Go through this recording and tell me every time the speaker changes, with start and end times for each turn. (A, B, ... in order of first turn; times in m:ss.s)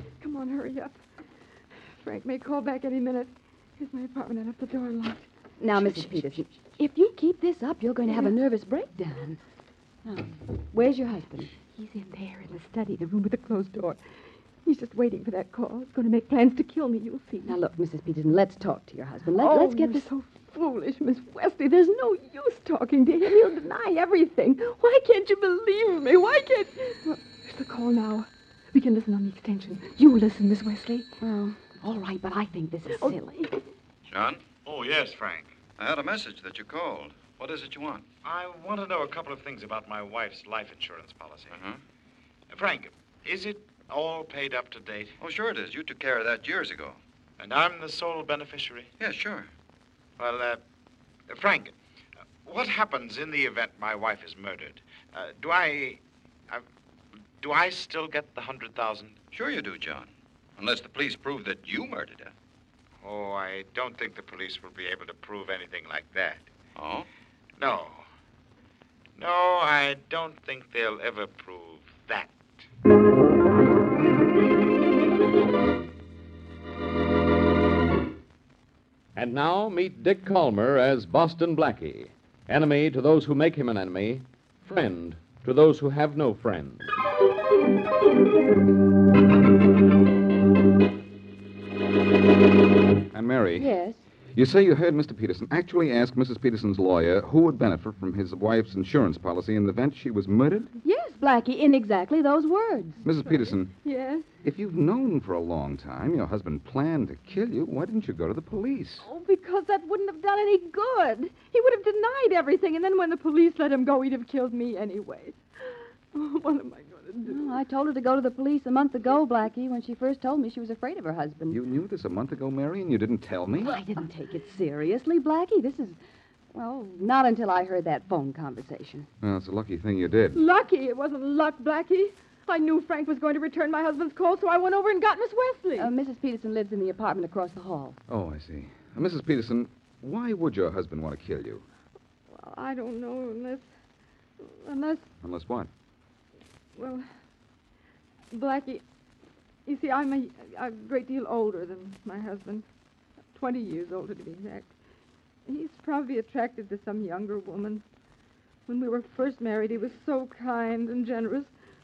0:00.2-0:00.9 A
0:02.0-0:08.4 A
0:05.6-0:06.4 B
0:08.0-0:09.4 B
0:10.0-0:11.5 B
0:11.7-0:14.0 A
0:14.6-0:17.6 A
0:17.4-0:20.1 B
0:19.3-0:31.1 A
0:31.2-0:33.5 B
0:32.9-0:33.5 A
0:34.1-0:34.4 C
0:34.6-0:35.5 D
0:35.8-0:38.0 C
0:38.2-0:41.6 D
0:41.5-0:41.8 C
0:42.5-0:45.1 D
0:45.2-0:47.0 C
0:47.4-0:48.9 D
0:49.0-0:49.5 C
0:50.2-0:50.6 D
0:51.3-0:51.7 D
0:52.4-0:56.6 D
0:57.4-0:59.2 D
0:59.3-1:02.3 C
1:03.0-1:06.5 D
1:06.8-1:07.0 C
1:07.6-1:08.1 D
1:09.2-1:12.6 D
1:19.1-1:26.9 E
1:33.1-1:33.7 F
1:33.6-1:34.0 B
1:34.3-1:40.7 F
1:40.8-1:43.0 B
1:43.0-1:43.7 F
1:43.2-1:44.2 A
1:44.4-1:49.0 F
1:49.0-1:57.5 A
1:57.2-2:01.6 B
2:01.5-2:03.7 F
2:03.6-2:06.0 B
2:03.6-2:04.0 A
2:06.5-2:09.1 B
2:09.2-2:10.4 F
2:10.3-2:15.9 A
2:15.8-2:18.0 B
2:18.1-2:21.6 F
2:22.3-2:23.7 A
2:24.4-2:25.0 A
2:25.2-2:25.7 F
2:26.8-2:27.0 A
2:28.3-2:28.8 A
2:29.6-2:32.6 A
2:33.3-2:34.7 A
2:35.5-2:37.8 A
2:38.7-2:41.5 A